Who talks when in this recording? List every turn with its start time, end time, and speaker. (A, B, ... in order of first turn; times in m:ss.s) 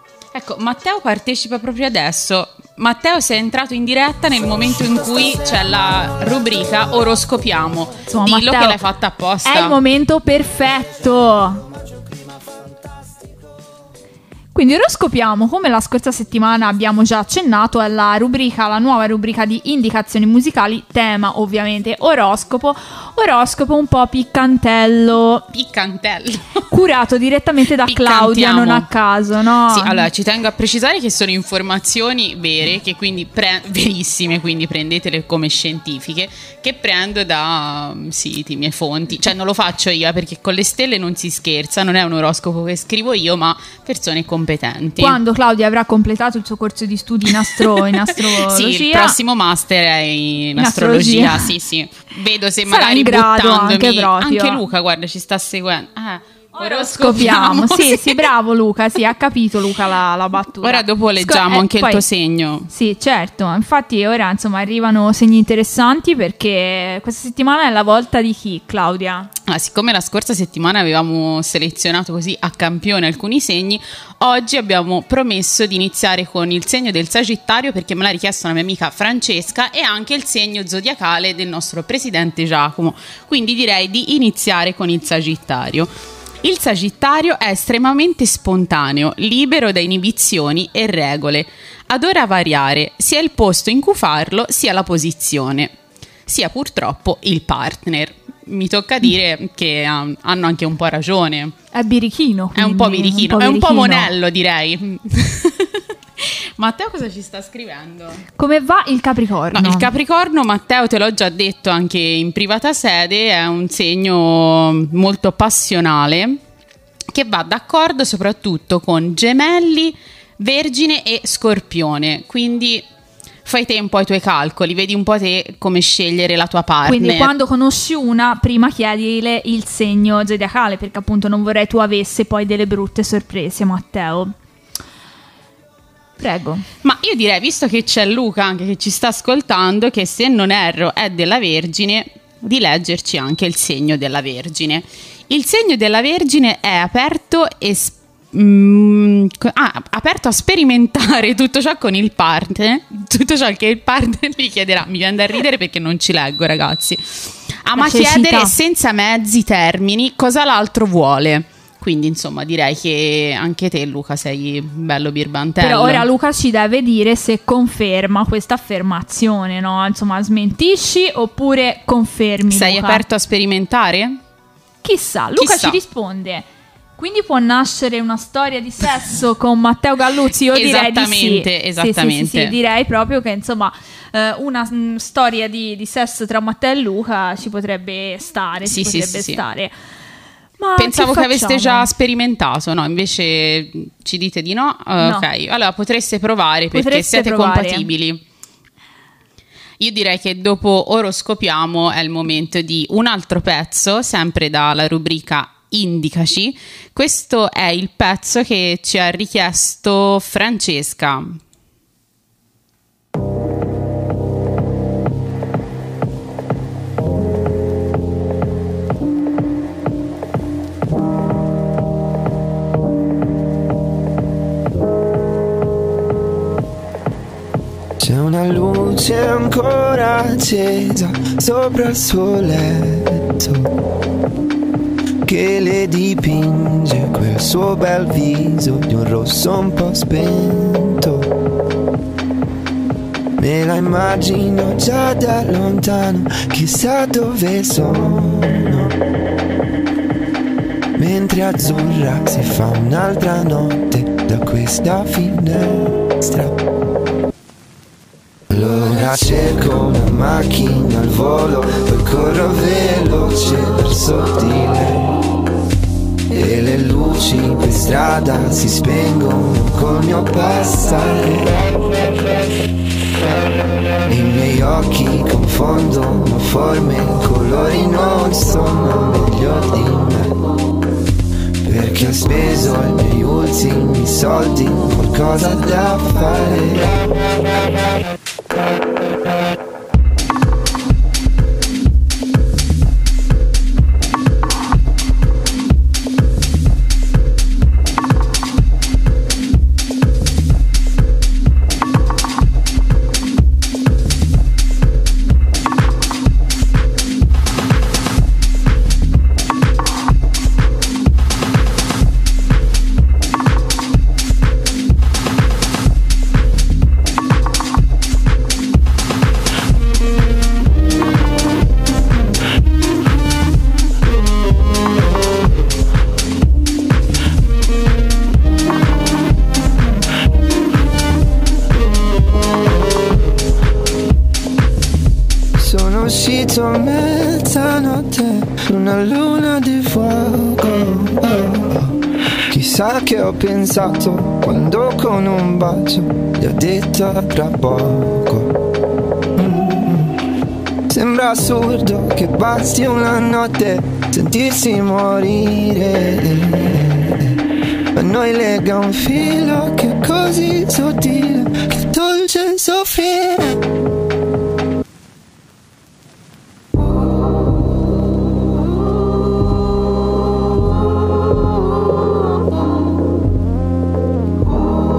0:00.3-0:09.7 A
0:08.1-0:08.8 B
0:09.4-0:11.6 B
0:14.5-0:25.4 B
0:25.5-0:26.6 A
0:26.7-0:30.1 B
0:27.8-0:28.9 A
0:29.7-0:45.2 A
0:45.0-0:49.2 B
0:47.5-0:58.3 A
0:50.6-0:51.5 B
0:52.7-0:54.6 B
0:56.6-1:02.0 B
1:00.6-1:02.7 A
1:02.7-1:09.3 B
1:09.5-1:25.9 A
1:26.4-1:35.7 A
1:36.3-1:41.5 A
1:41.7-1:44.1 B
1:42.6-1:48.2 A
1:48.4-1:49.9 B
1:49.5-1:56.4 A
1:57.1-2:02.8 A
2:03.4-2:07.3 A
2:06.8-2:14.3 B
2:16.2-2:16.6 B
2:16.8-2:46.1 A
2:37.8-2:38.5 B
2:45.6-2:53.0 B
2:52.5-2:54.2 A
2:54.8-2:56.4 B
2:55.4-2:55.8 A
2:57.0-3:09.7 B
3:00.5-3:02.5 A
3:08.6-3:09.4 A
3:10.6-3:11.9 B
3:10.8-3:18.2 A
3:15.0-3:15.2 B
3:16.7-3:17.9 B
3:19.8-3:31.4 A
3:48.0-3:53.7 C
3:55.2-4:01.3 C
4:03.4-4:08.9 C
4:11.0-4:16.5 C
4:18.5-4:25.1 C
4:26.3-4:31.5 C
4:34.1-4:40.4 C
4:41.6-4:47.0 C
5:35.6-5:41.9 C
5:42.5-5:48.5 C
5:49.4-5:50.1 C
5:50.9-5:57.4 C
5:57.9-6:03.6 C